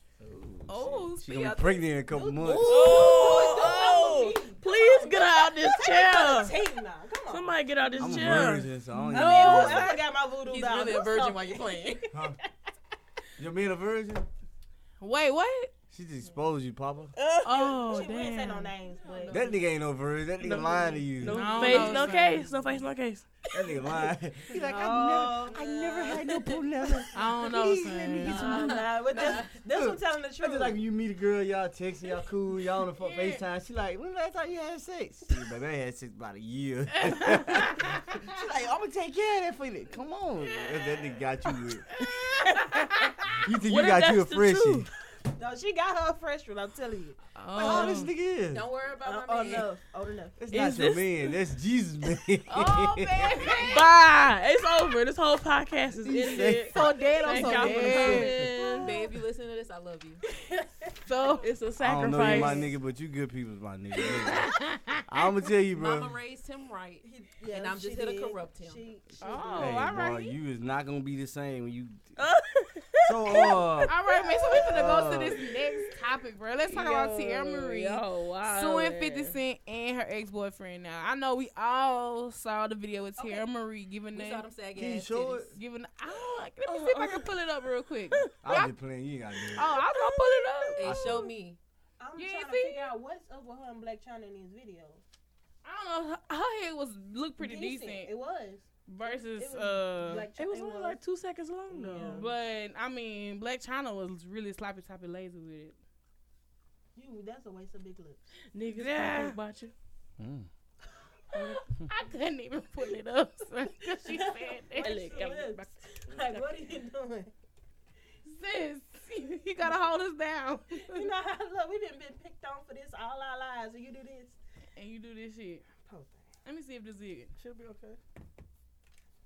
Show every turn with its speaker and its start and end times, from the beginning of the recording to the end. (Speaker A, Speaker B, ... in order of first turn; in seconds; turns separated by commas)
Speaker A: 0.2-3.0, Speaker B: 0.7-1.9, Speaker C: 2.1-8.2, Speaker D: 2.6-6.7, Speaker E: 2.8-4.1, Speaker D: 7.3-8.7, Speaker A: 8.0-9.9, Speaker B: 9.0-9.7, Speaker C: 9.1-12.3, Speaker E: 9.2-12.2, Speaker A: 12.1-12.4, Speaker A: 13.4-14.3, Speaker B: 15.0-15.7, Speaker A: 15.9-17.1, Speaker D: 17.2-17.5, Speaker B: 17.4-18.8, Speaker C: 17.5-19.5, Speaker E: 19.0-19.5, Speaker A: 19.3-22.1, Speaker D: 20.4-23.3, Speaker B: 21.2-22.6, Speaker A: 23.5-41.9, Speaker C: 24.6-25.6, Speaker E: 25.5-26.6, Speaker B: 27.1-28.5, Speaker C: 28.2-30.8, Speaker E: 28.3-29.6, Speaker B: 33.0-33.4, Speaker B: 37.0-38.0, Speaker B: 41.9-43.3, Speaker D: 42.0-43.1, Speaker A: 43.4-44.9, Speaker D: 43.6-44.9, Speaker C: 45.4-47.2, Speaker B: 47.4-48.1, Speaker A: 47.5-48.6, Speaker E: 48.5-49.7, Speaker C: 49.0-50.4, Speaker A: 50.4-53.5, Speaker D: 50.5-51.4, Speaker B: 52.5-54.1, Speaker D: 53.6-59.0, Speaker A: 55.9-56.8, Speaker B: 56.7-58.4, Speaker C: 57.4-57.9, Speaker A: 57.7-58.5, Speaker E: 58.3-60.2, Speaker B: 61.1-61.5, Speaker D: 61.4-62.7, Speaker A: 61.8-64.5, Speaker B: 64.3-65.1, Speaker A: 65.1-66.2, Speaker E: 65.7-68.8, Speaker C: 67.0-69.8, Speaker B: 69.2-70.3, Speaker D: 69.2-69.8, Speaker A: 69.6-72.2, Speaker D: 72.2-76.0, Speaker A: 73.0-74.0, Speaker B: 73.9-84.5, Speaker A: 74.5-75.4, Speaker D: 76.7-79.4, Speaker E: 83.2-83.5, Speaker E: 84.1-85.6, Speaker A: 84.7-85.6, Speaker B: 85.6-88.7, Speaker D: 86.7-87.4, Speaker A: 88.4-89.7, Speaker B: 89.5-90.8, Speaker D: 89.6-90.5, Speaker E: 90.8-91.6, Speaker A: 90.8-91.3, Speaker C: 92.0-95.0, Speaker B: 92.2-92.9, Speaker B: 95.6-98.1, Speaker C: 97.4-101.0, Speaker B: 98.9-100.3, Speaker D: 100.3-102.3, Speaker C: 101.7-102.3, Speaker B: 102.0-105.8, Speaker C: 107.0-108.3, Speaker D: 108.5-109.7, Speaker B: 108.8-109.4, Speaker A: 110.2-110.5, Speaker B: 111.3-115.3, Speaker C: 114.0-117.3, Speaker D: 114.8-116.7, Speaker B: 118.2-121.1, Speaker C: 120.8-124.4, Speaker B: 124.8-125.7, Speaker C: 125.8-126.2, Speaker B: 126.5-127.3, Speaker A: 127.4-128.0